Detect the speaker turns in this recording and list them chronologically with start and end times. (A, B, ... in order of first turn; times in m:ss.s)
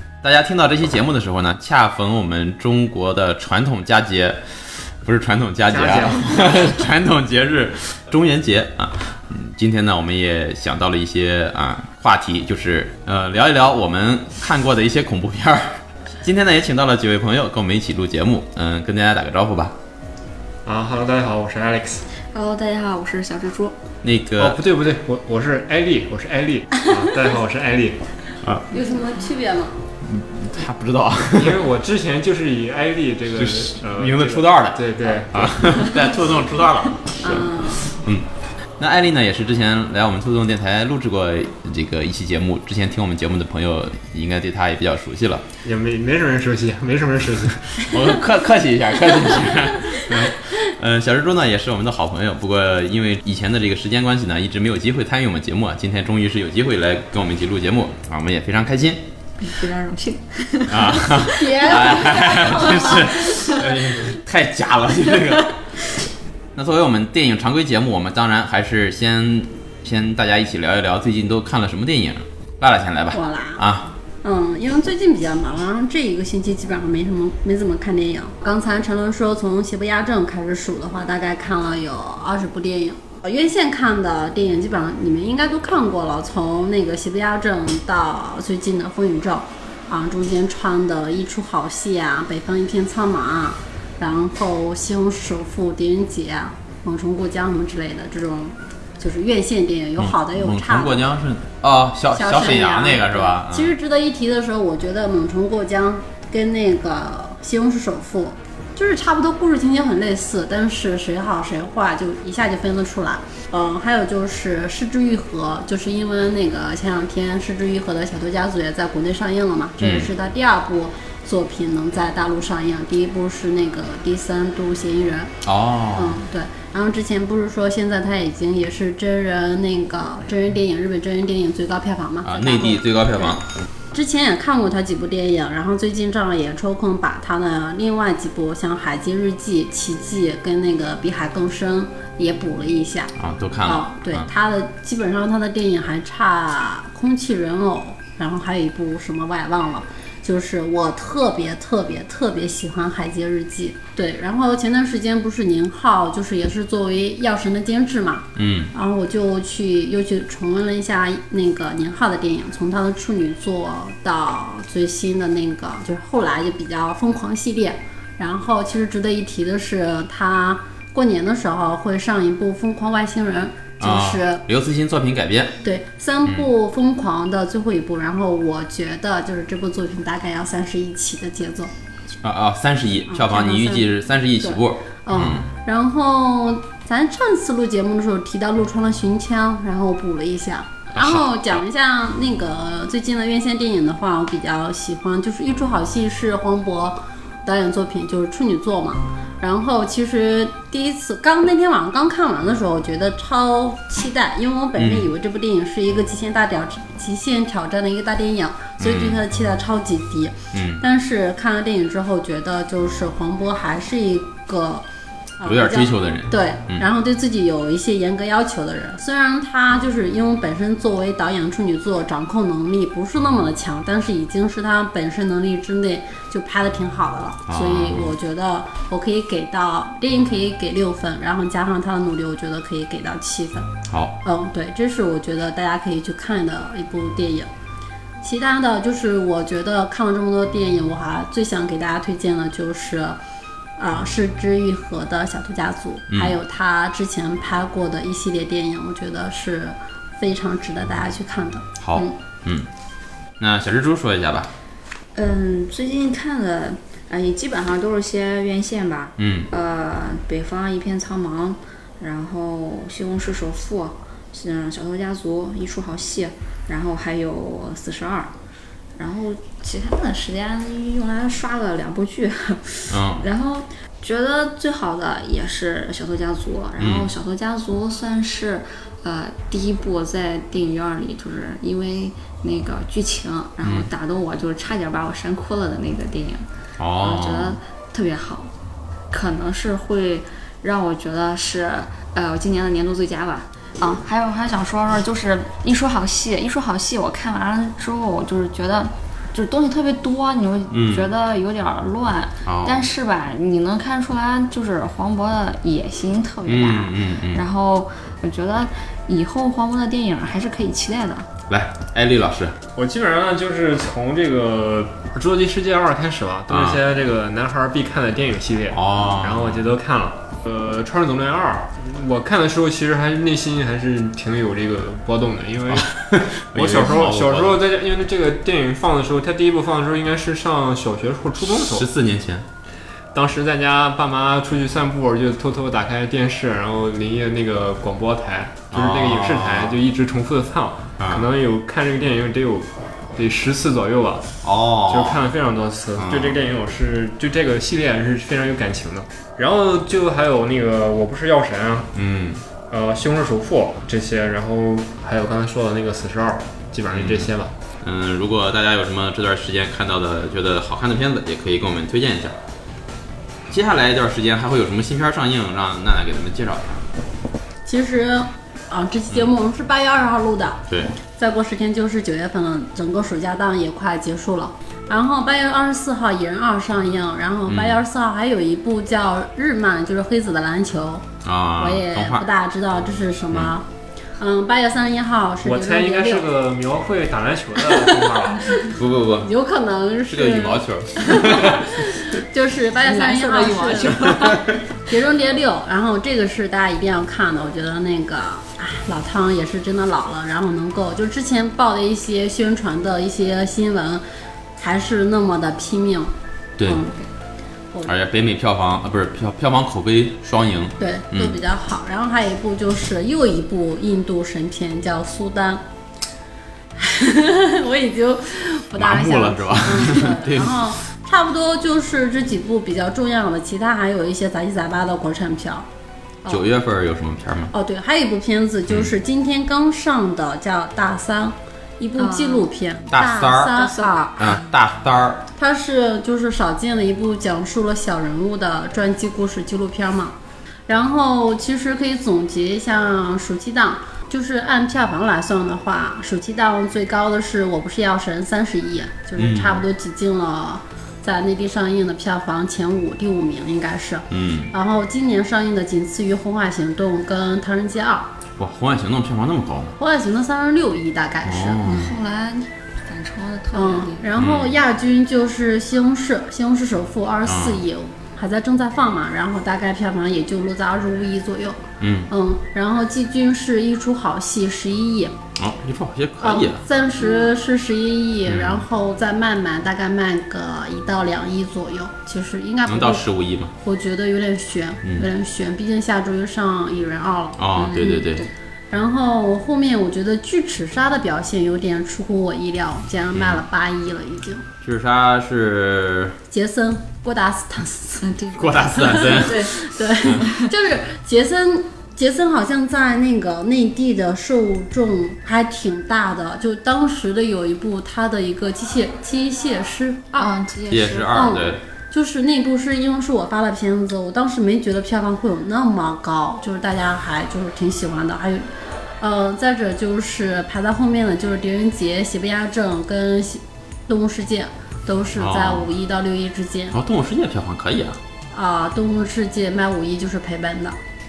0:00.2-0:04.4 A
0:05.0-0:19.7 A
0:05.7-0:06.8 B
0:20.6-0:22.0 B
0:22.3-0:23.8 C
0:24.0-0:24.6 A
0:24.4-0:28.0 B
0:28.7-0:29.8 D
0:30.0-0:31.6 A
0:31.3-0:35.8 B
0:33.3-0:38.2 A
0:37.2-0:37.9 D
0:38.8-0:45.4 A
0:45.6-0:47.9 B
0:47.9-0:59.0 A
0:59.4-1:03.9 C
1:00.7-1:05.6 A
1:01.3-1:03.0 D
1:06.6-1:13.9 A
1:13.1-1:13.6 D
1:14.2-1:41.0 D
1:40.0-1:43.7 A
1:42.1-2:05.3 D
1:59.8-2:00.1 A
2:05.4-2:06.2 A
2:05.9-2:13.4 D
2:12.2-2:13.4 A
2:13.9-2:23.1 D
2:23.2-2:24.3 A
2:23.6-2:54.4 D
2:38.4-2:38.7 A
2:53.8-2:55.6 A
2:55.6-3:01.7 D
3:02.2-3:05.5 A
3:03.1-3:03.9 D
3:04.4-3:34.8 D
3:24.8-3:25.1 A
3:28.8-3:29.2 A
3:30.5-3:30.8 A
3:35.4-3:53.7 D
3:35.4-3:36.8 A
3:47.5-3:48.1 A
3:53.9-3:54.2 A
3:54.2-3:57.5 D
3:58.2-4:03.2 D
4:03.8-4:12.2 D
4:06.1-4:06.4 A
4:11.8-4:12.7 A
4:13.4-4:14.5 A
4:15.1-4:28.3 C
4:19.2-4:19.5 A
4:29.0-4:46.4 C
4:32.9-4:33.2 A
4:36.8-4:37.1 A
4:43.6-4:43.9 A
4:46.8-4:47.6 A
4:47.0-4:48.5 C
4:49.1-5:11.3 C
5:00.7-5:01.1 A
5:02.4-5:02.9 A
5:06.4-5:07.4 A
5:11.5-5:12.6 A
5:12.8-5:31.9 B
5:16.5-5:16.8 A
5:18.7-5:19.6 A
5:25.7-5:27.6 A
5:31.5-5:32.4 A
5:33.1-5:44.3 B
5:38.7-5:39.8 A
5:41.0-5:41.3 A
5:44.4-5:45.2 A
5:44.9-5:51.9 B
5:46.0-5:46.4 A
5:51.9-5:52.4 A
5:52.7-5:57.5 B
5:56.9-5:57.3 A
5:57.8-6:02.4 A
6:03.5-6:06.6 A
6:07.6-6:10.6 D
6:10.7-6:10.9 A
6:11.2-6:21.1 D
6:17.5-6:17.8 A
6:21.2-6:22.2 A
6:21.6-6:23.6 D
6:24.2-6:26.3 D
6:25.4-6:28.7 B
6:28.5-6:44.0 D
6:28.7-6:29.3 A
6:30.1-6:31.7 A
6:32.8-6:34.5 C
6:44.6-6:46.1 D
6:46.6-6:46.8 A
6:46.6-6:46.9 D
6:47.9-6:51.4 A
6:50.8-6:55.6 D
6:56.8-7:05.6 D
6:58.7-7:00.7 A
7:06.3-7:07.5 A
7:07.5-7:14.0 D
7:12.0-7:12.5 C
7:12.9-7:13.6 A
7:13.5-7:14.5 C
7:14.2-7:15.2 A
7:15.4-7:20.2 D
7:20.7-7:38.1 D
7:29.2-7:29.6 A
7:34.1-7:34.5 A
7:38.4-7:39.8 A
7:39.8-7:41.6 D
7:41.2-7:42.0 A
7:41.6-7:44.0 C
7:43.5-7:55.2 D
7:44.2-7:44.6 A
7:47.2-7:47.6 A
7:51.8-7:52.1 A
7:55.4-7:56.6 A
7:56.2-8:03.0 D
7:58.3-7:58.6 A
8:02.6-8:03.5 A
8:03.6-8:08.0 D
8:07.4-8:08.3 A
8:07.6-8:08.3 C
8:08.7-8:14.4 D
8:13.1-8:13.4 A
8:14.6-8:16.2 A
8:16.3-8:18.1 D
8:18.0-8:19.5 C
8:18.4-8:20.3 A
8:18.8-8:30.3 D
8:20.2-8:20.5 C
8:30.1-8:31.2 C
8:30.7-8:31.6 A
8:31.1-8:38.5 D
8:39.0-8:46.8 D
8:45.2-8:45.6 A
8:46.7-8:48.0 A
8:48.3-8:50.8 D